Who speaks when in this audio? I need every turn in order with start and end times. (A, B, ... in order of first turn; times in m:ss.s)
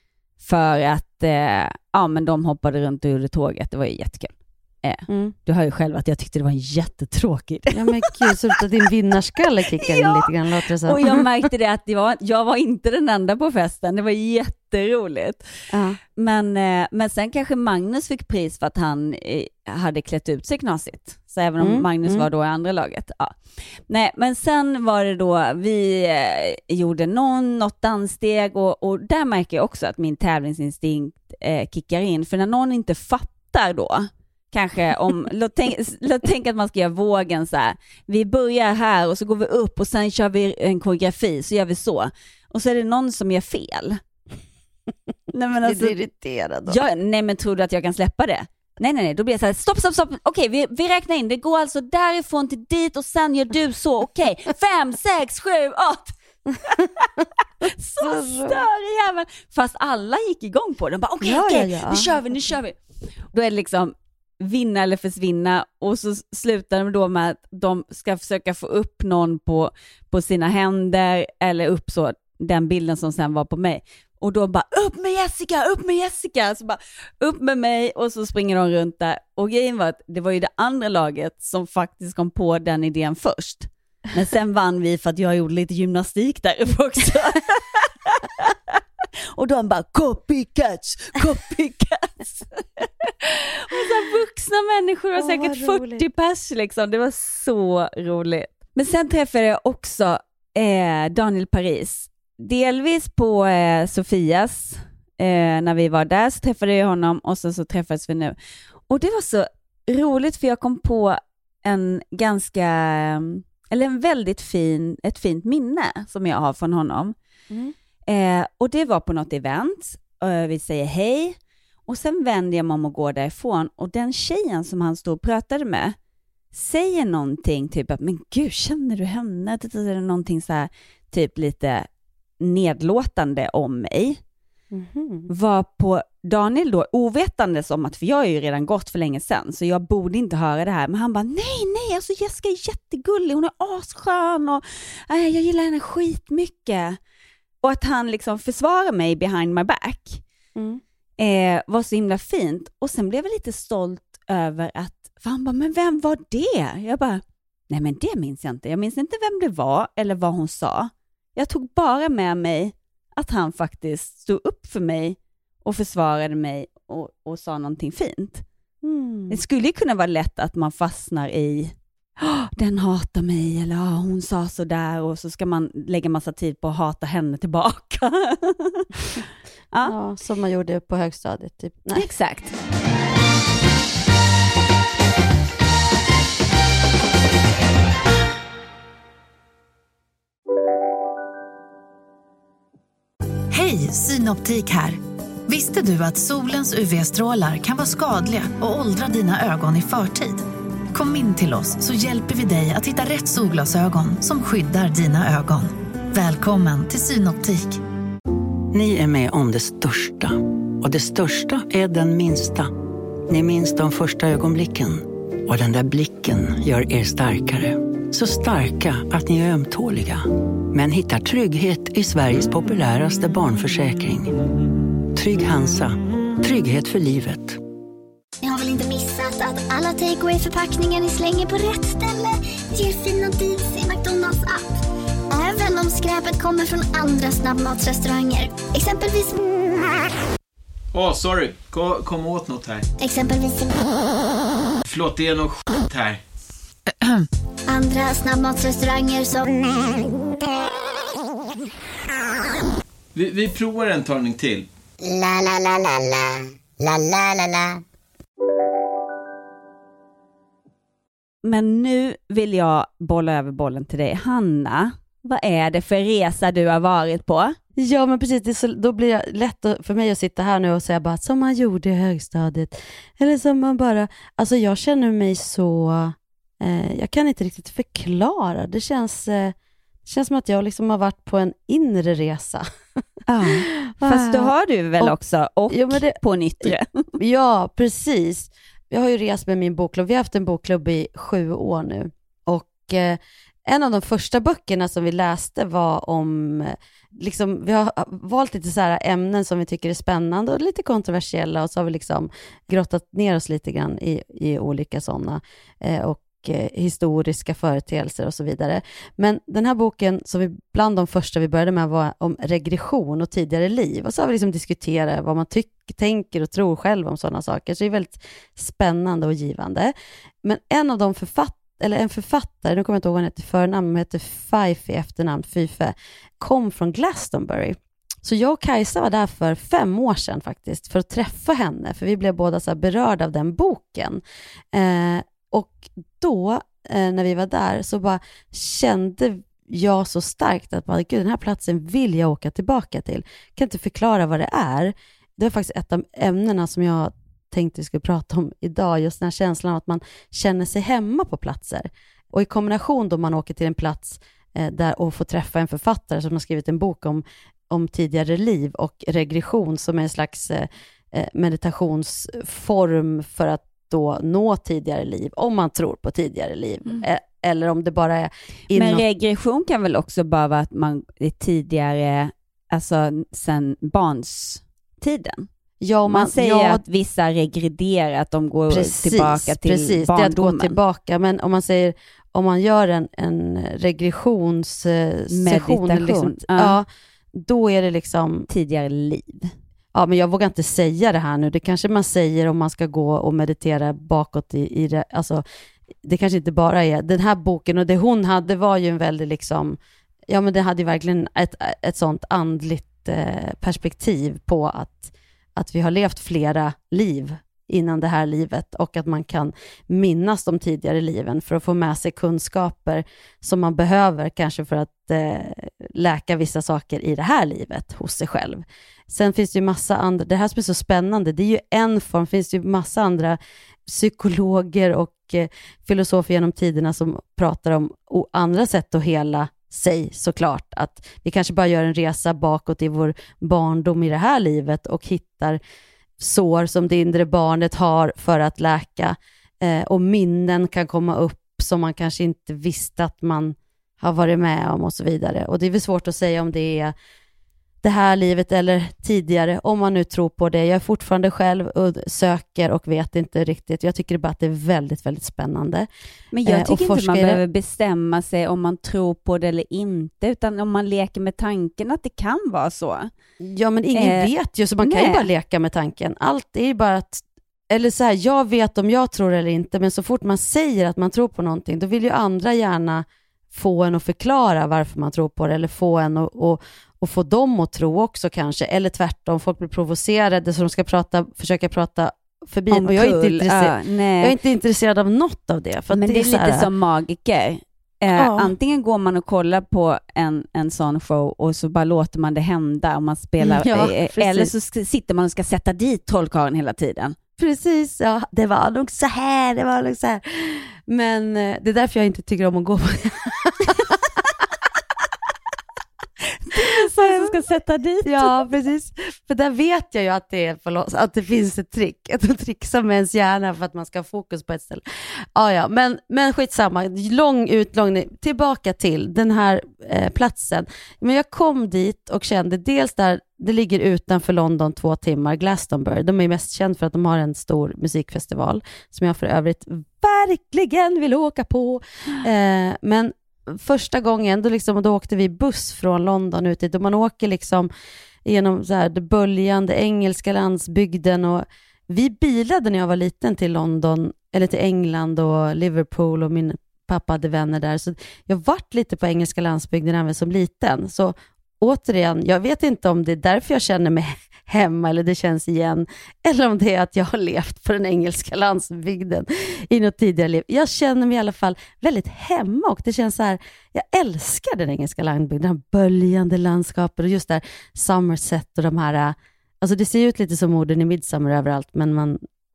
0:00.4-0:08.6 A
0:05.1-0:05.4 B
0:07.7-0:11.3 B
0:09.7-0:10.3 A
0:10.8-0:15.4 A
0:15.7-0:16.0 B
0:16.2-0:44.0 A
0:21.6-0:22.3 B
0:45.3-0:46.0 A
0:45.6-0:46.8 B
0:46.7-0:57.1 A
0:57.6-1:02.8 A
0:58.0-0:58.6 B
1:01.2-1:02.2 B
1:03.3-1:28.8 A
1:29.4-1:48.4 A
1:35.2-1:36.1 B
1:48.9-1:57.2 A
1:58.1-2:06.0 A
2:06.5-2:11.9 A
2:12.4-2:14.2 A
2:14.7-2:15.3 B
2:15.3-2:27.0 A
2:27.6-2:30.2 A
2:30.6-2:30.8 B
2:31.2-2:48.4 A
2:48.8-2:49.4 B
2:49.3-2:58.9 A
2:59.8-3:02.1 B
3:02.0-3:02.6 A
3:13.5-3:27.8 C
3:28.7-3:32.7 D
3:33.3-3:44.4 D
3:45.1-3:47.6 D
3:48.4-3:54.7 E
3:55.3-3:59.4 E
4:00.9-4:02.9 F
4:03.0-4:03.9 E
4:04.9-4:06.2 F
4:07.7-4:10.1 E
4:13.2-4:14.7 F
4:21.4-4:27.6 A
4:27.8-4:42.6 B
4:43.3-4:47.1 A
4:43.5-4:45.1 B
4:45.7-5:34.2 B
5:34.7-6:09.0 B
6:08.7-6:15.5 A
6:15.8-6:16.8 B
6:16.1-6:20.8 A
6:18.7-6:28.5 B
6:25.3-6:26.8 A
6:28.5-6:29.5 A
6:29.9-6:35.4 B
6:36.0-6:39.8 B
6:40.3-7:15.6 B
7:16.2-7:26.9 B
7:27.8-7:35.9 B
7:36.3-7:43.1 A
7:36.4-7:37.4 B
7:43.4-8:06.7 B
7:43.9-7:44.3 A
7:44.8-7:45.3 A
8:02.7-8:04.4 A
8:05.9-8:17.2 A
8:08.2-8:08.5 B
8:13.4-8:14.5 B
8:17.4-8:24.5 B
8:26.5-8:28.4 A
8:26.6-8:27.4 B
8:28.0-8:57.7 B
8:58.2-9:32.2 B